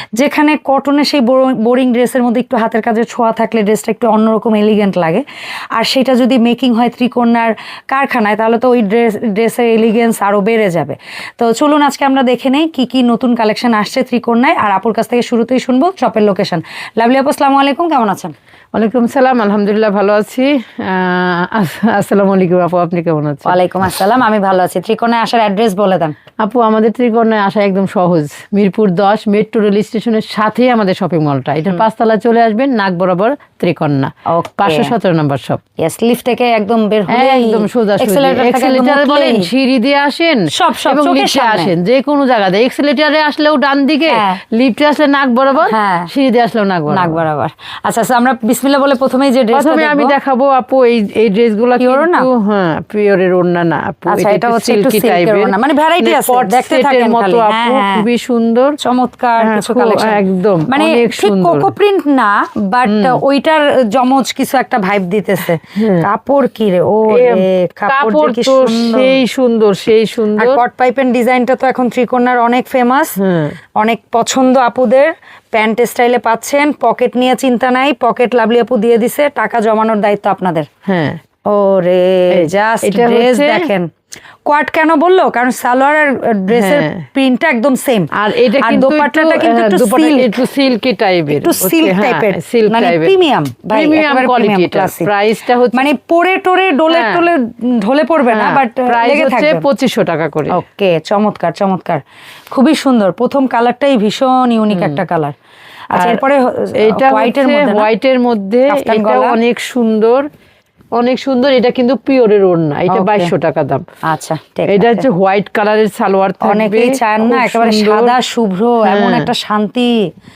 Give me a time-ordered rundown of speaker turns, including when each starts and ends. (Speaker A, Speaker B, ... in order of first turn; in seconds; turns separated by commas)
Speaker A: 0.1-18.3, Speaker B: 18.7-23.5, Speaker A: 23.4-26.1, Speaker B: 26.4-35.6, Speaker A: 34.3-34.9, Speaker A: 35.8-39.5, Speaker B: 37.1-47.2, Speaker A: 40.5-41.7, Speaker A: 44.1-44.4, Speaker A: 45.6-46.1, Speaker A: 46.9-50.1, Speaker B: 49.5-58.8, Speaker A: 51.8-52.3, Speaker A: 54.1-58.0, Speaker A: 58.8-69.2, Speaker B: 59.4-61.7, Speaker B: 62.9-63.2, Speaker B: 65.7-66.1, Speaker B: 67.1-70.6, Speaker A: 70.4-73.2, Speaker B: 73.2-73.5, Speaker A: 73.8-80.7, Speaker B: 80.8-81.2, Speaker A: 81.5-83.9, Speaker B: 82.3-83.7, Speaker A: 84.5-90.4, Speaker B: 86.5-87.0, Speaker B: 88.1-93.1, Speaker A: 91.3-95.1, Speaker B: 93.7-95.9, Speaker A: 95.7-99.6, Speaker B: 96.9-97.2, Speaker B: 98.3-100.6, Speaker A: 100.5-102.0, Speaker A: 102.5-105.3, Speaker B: 104.7-105.0, Speaker A: 105.9-107.9, Speaker B: 105.9-106.2, Speaker B: 106.8-110.3, Speaker A: 108.7-109.4, Speaker B: 110.9-113.8, Speaker A: 112.9-113.3, Speaker A: 114.0-115.0, Speaker B: 114.7-118.1, Speaker A: 116.4-120.1, Speaker B: 118.8-119.3